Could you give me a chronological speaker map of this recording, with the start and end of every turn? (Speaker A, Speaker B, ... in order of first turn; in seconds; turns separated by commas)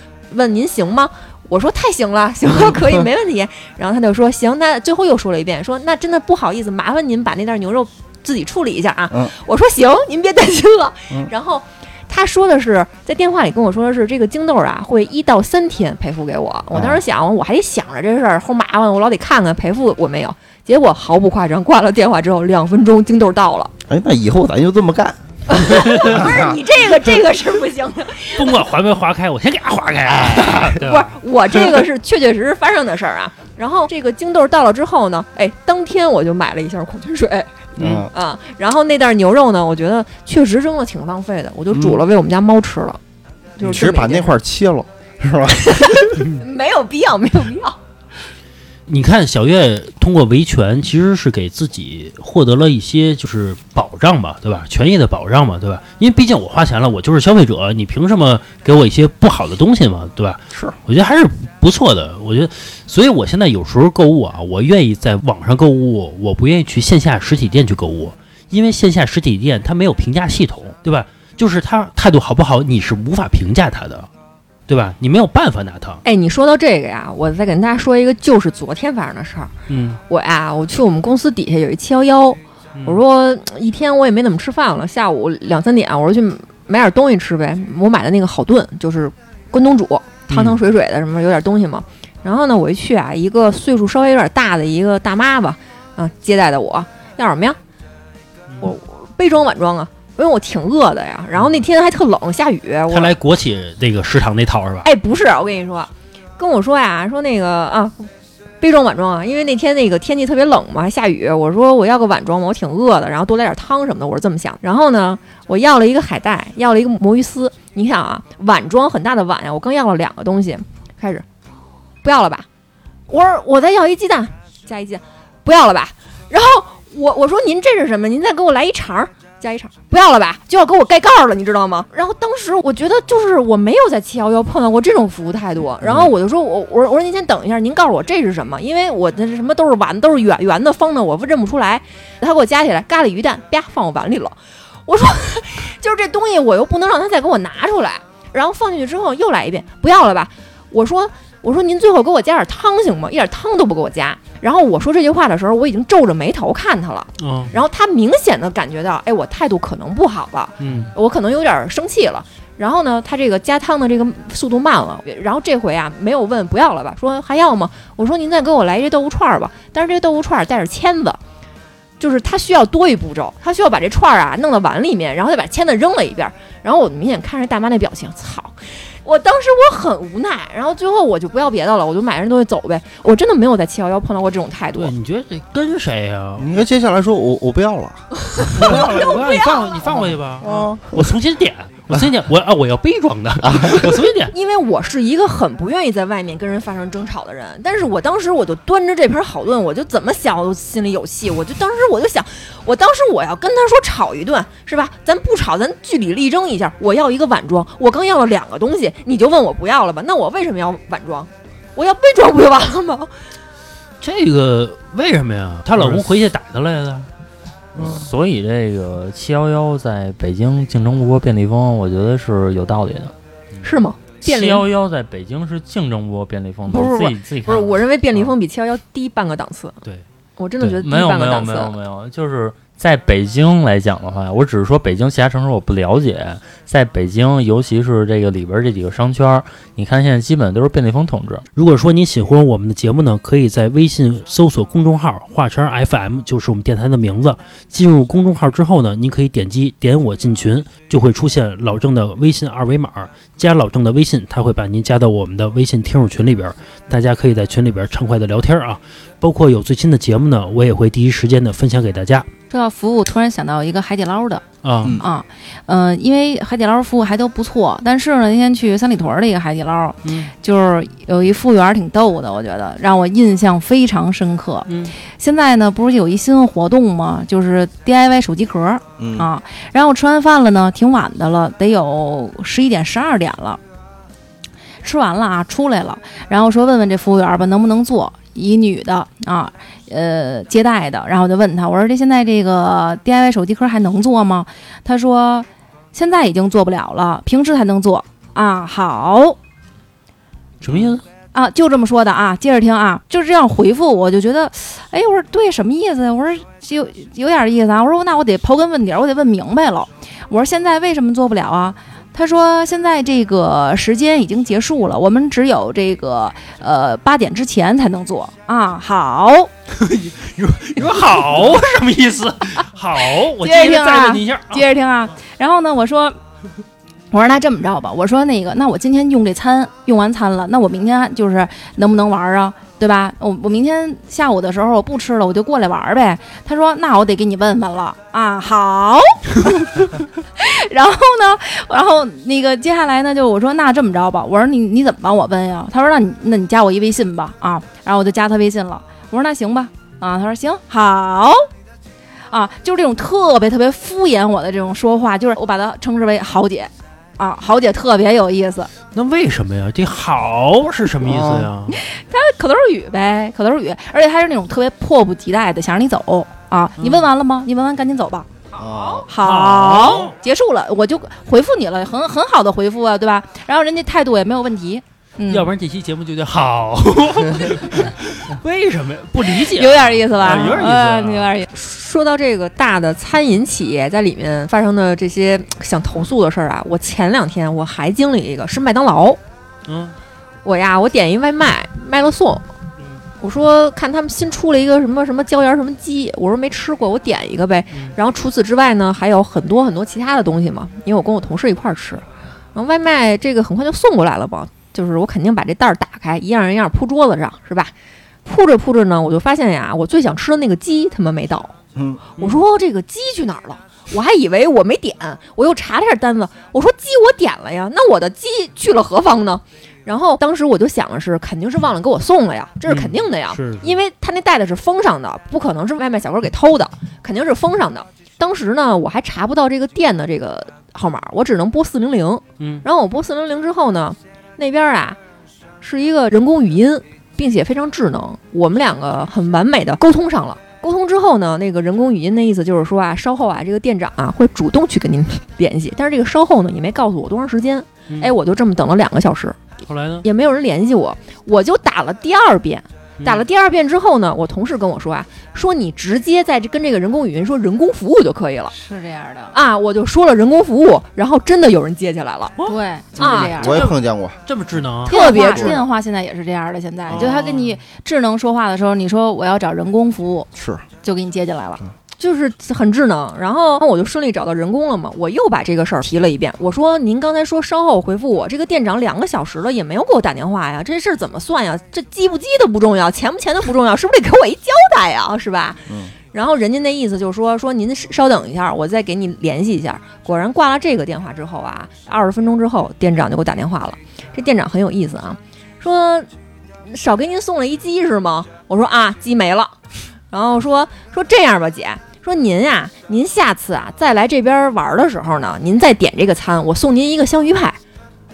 Speaker A: 0.3-23.7, Speaker B: 16.7-17.0, Speaker B: 23.9-26.5, Speaker A: 25.5-28.6, Speaker C: 25.9-26.2, Speaker C: 28.3-31.1, Speaker A: 30.7-37.5, Speaker B: 37.8-38.1, Speaker C: 37.8-38.1, Speaker A: 38.1-43.0, Speaker B: 41.7-42.0, Speaker A: 43.6-44.3, Speaker B: 43.6-46.2, Speaker A: 45.6-47.8, Speaker C: 48.9-74.1, Speaker C: 74.7-76.0, Speaker A: 76.0-79.5, Speaker C: 79.7-80.0, Speaker A: 80.1-97.6, Speaker C: 82.7-83.0, Speaker C: 90.3-90.6, Speaker A: 98.6-103.1, Speaker C: 101.4-101.6, Speaker C: 102.9-104.9, Speaker A: 104.8-108.1, Speaker A: 108.6-121.2, Speaker A: 122.0-122.5, Speaker A: 123.1-171.2, Speaker C: 157.2-157.5, Speaker C: 160.6-160.9, Speaker A: 172.0-184.9, Speaker C: 184.8-186.6, Speaker B: 186.4-189.1, Speaker A: 188.3-190.1, Speaker C: 188.5-194.3, Speaker B: 190.4-191.1, Speaker B: 193.4-193.9, Speaker A: 194.3-213.1, Speaker C: 214.0-217.1, Speaker D: 215.8-216.0, Speaker B: 217.8-218.0, Speaker D: 217.8-223.1, Speaker A: 223.6-224.7, Speaker D: 224.2-227.8, Speaker A: 226.7-229.8, Speaker A: 230.4-231.7, Speaker D: 230.6-241.4, Speaker C: 241.5-262.3, Speaker E: 262.5-264.4, Speaker C: 264.6-265.0, Speaker E: 265.0-283.6, Speaker C: 270.0-270.3, Speaker C: 274.7-274.9, Speaker B: 279.0-279.3, Speaker E: 284.8-299.4, Speaker C: 300.6-301.0, Speaker E: 301.3-319.5, Speaker C: 319.7-324.7, Speaker E: 323.4-326.1, Speaker E: 327.1-351.4, Speaker E: 352.3-358.7, Speaker C: 358.9-361.8, Speaker B: 361.0-361.5, Speaker E: 361.7-368.3, Speaker C: 366.8-367.1, Speaker B: 368.6-369.1, Speaker E: 369.0-375.5, Speaker C: 369.1-370.1, Speaker C: 375.3-381.4, Speaker E: 379.4-381.5, Speaker A: 381.5-389.2, Speaker C: 389.6-389.9, Speaker A: 390.4-392.4, Speaker A: 393.2-402.0, Speaker A: 402.5-407.7, Speaker A: 408.2-411.5, Speaker B: 411.8-412.0, Speaker A: 412.1-435.0, Speaker C: 422.7-423.8, Speaker C: 432.4-432.6, Speaker A: 435.6-449.4, Speaker C: 449.7-450.1, Speaker A: 450.0-458.5, Speaker C: 453.0-453.2, Speaker E: 458.5-459.4, Speaker A: 459.3-462.4, Speaker C: 462.4-465.0, Speaker E: 462.4-463.8, Speaker A: 463.0-463.3, Speaker B: 463.0-464.2, Speaker A: 464.9-465.6, Speaker E: 464.9-470.3, Speaker B: 465.2-465.6, Speaker C: 466.9-467.4, Speaker B: 470.4-470.6, Speaker E: 470.8-471.6, Speaker A: 472.0-496.1, Speaker B: 485.7-485.9, Speaker A: 496.7-499.6, Speaker A: 500.1-507.6